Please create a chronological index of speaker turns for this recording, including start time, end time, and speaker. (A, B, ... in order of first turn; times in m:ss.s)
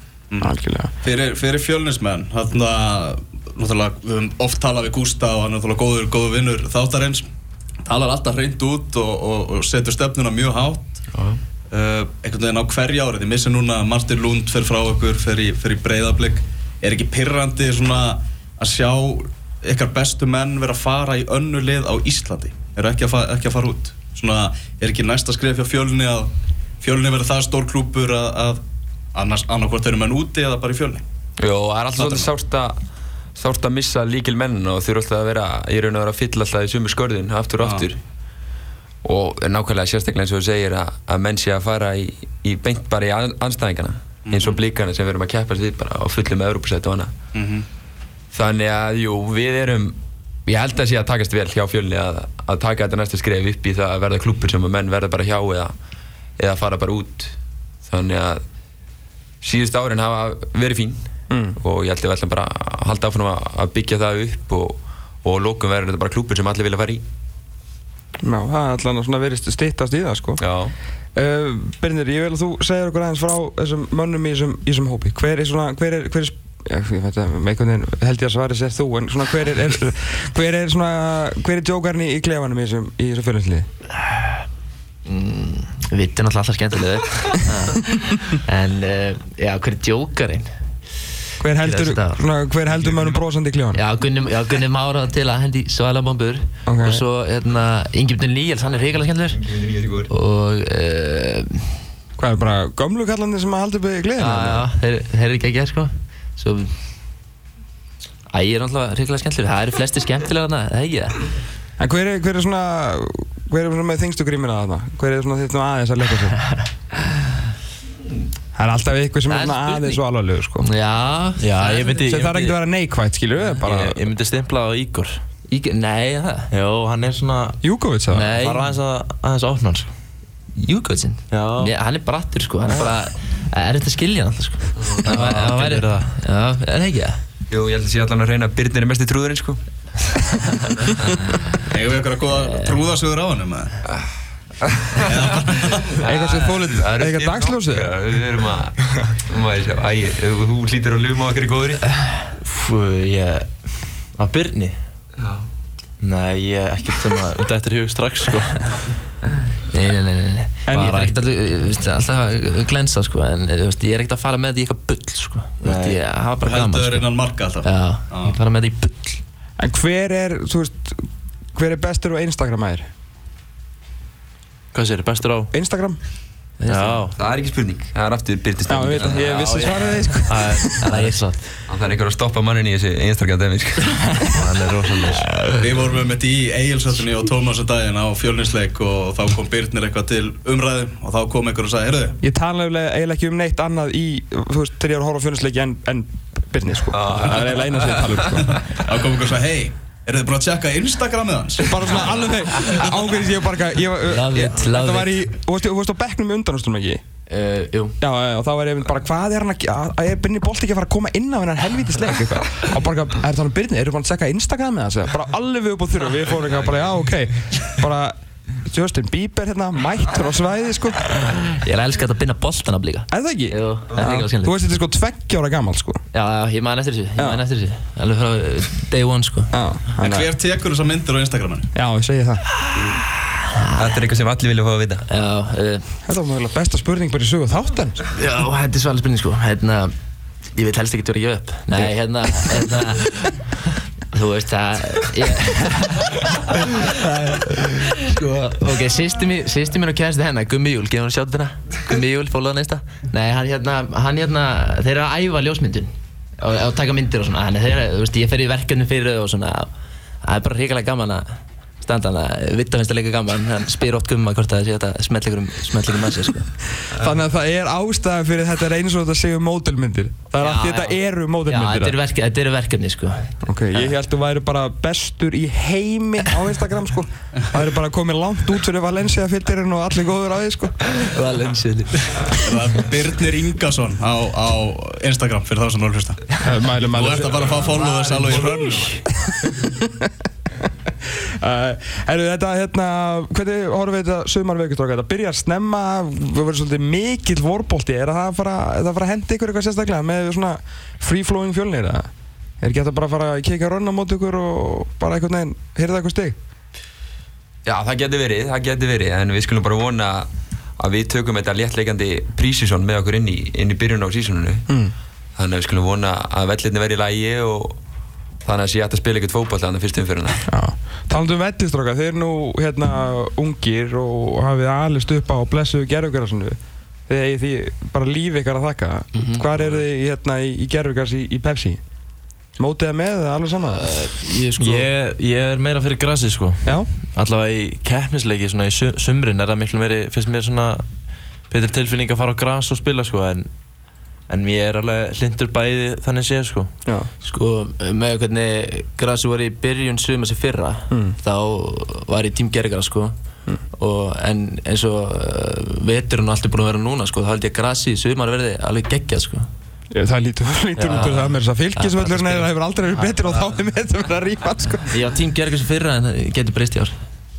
0:00.3-0:07.3 A
0:00.4-0:00.9 B
0:07.8-0:11.0 A
0:11.1-0:11.4 C
0:11.7-0:26.3 A
0:26.8-0:28.6 A
0:29.1-0:31.0 A
0:31.4-0:32.8 C
0:31.9-0:32.3 A
0:33.3-0:38.0 C
0:37.6-0:37.9 A
0:39.0-0:47.1 C
0:44.2-0:44.6 A
0:47.3-0:47.7 A
0:48.3-0:55.7 C
0:56.4-0:58.4 C
0:59.4-1:01.0 C
1:01.3-1:01.6 B
1:01.6-1:07.0 C
1:08.2-1:10.4 B
1:10.4-1:10.7 C
1:11.1-1:23.7 B
1:25.0-1:30.5 D
1:31.4-1:33.8 B
1:31.6-1:32.2 D
1:33.7-1:39.4 D
1:36.6-1:37.0 B
1:39.3-1:40.1 C
1:40.1-1:41.8 D
1:42.2-1:44.7 B
1:44.2-1:46.8 D
1:48.3-1:51.2 D
1:51.8-1:56.4 B
1:58.5-2:00.7 B
1:59.3-2:00.0 D
2:00.6-2:02.0 D
2:01.4-2:02.6 E
2:02.0-2:04.0 B
2:03.6-2:05.2 E
2:05.5-2:06.5 D
2:06.5-2:07.6 E
2:07.6-2:08.3 B
2:08.1-2:08.7 D
2:08.4-2:09.9 E
2:10.5-2:17.2 D
2:11.3-2:11.7 E
2:15.0-2:16.1 E
2:17.5-2:21.3 C
2:21.7-2:23.8 A
2:24.8-2:31.9 C
2:25.0-2:26.0 A
2:26.0-2:27.9 B
2:32.4-2:34.8 E
2:35.2-2:35.4 C
2:36.0-2:38.8 E
2:39.7-2:47.1 D
2:40.6-2:41.0 B
2:40.7-2:41.2 E
2:45.6-2:46.0 E
2:46.4-2:48.4 A
2:47.6-2:49.2 D
2:49.6-2:52.8 B
2:54.7-2:55.5 E
2:55.5-2:56.0 B
2:56.6-2:57.1 D
2:56.7-2:57.1 E
2:57.2-2:59.4 C
2:58.7-3:00.8 B
2:59.0-3:01.4 E
3:00.8-3:01.3 D
3:01.7-3:04.4 C
3:04.3-3:05.3 E
3:05.6-3:12.2 A
3:12.2-3:18.6 B
3:16.9-3:18.8 C
3:18.4-3:22.0 A
3:21.6-3:27.0 B
3:24.0-3:25.2 D
3:27.3-3:28.0 D
3:28.0-3:41.2 B
3:41.5-3:44.5 D
3:43.1-3:46.0 B
3:46.1-3:49.5 D
3:49.5-3:50.3 B
3:50.0-3:51.7 A
3:51.7-3:52.4 B
3:52.6-3:54.0 D
3:53.8-3:55.0 C
3:55.1-3:56.0 D
3:56.0-3:58.0 B
3:58.1-3:59.9 D
4:00.5-4:19.7 D
4:07.0-4:07.5 B
4:20.2-4:26.5 D
4:26.9-4:32.0 B
4:30.4-4:33.9 D
4:33.4-4:40.9 B
4:41.0-4:42.4 D
4:42.3-4:49.0 A
4:46.4-4:47.7 B
4:47.7-4:48.8 D
4:49.2-5:02.1 B
5:02.6-5:06.4 B
5:07.6-5:14.6 C
5:14.7-5:14.9 B
5:15.4-5:17.8 C
5:18.4-5:20.4 C
5:20.5-5:31.8 B
5:29.1-5:29.4 D
5:32.6-5:33.9 B
5:33.7-5:34.9 D
5:34.6-5:40.8 E
5:41.5-5:43.5 E
5:44.3-5:46.7 E
5:47.2-5:53.1 D
5:50.9-5:51.2 B
5:53.7-5:59.5 D
5:59.9-6:04.9 B
6:00.8-6:02.5 D
6:04.9-6:07.0 D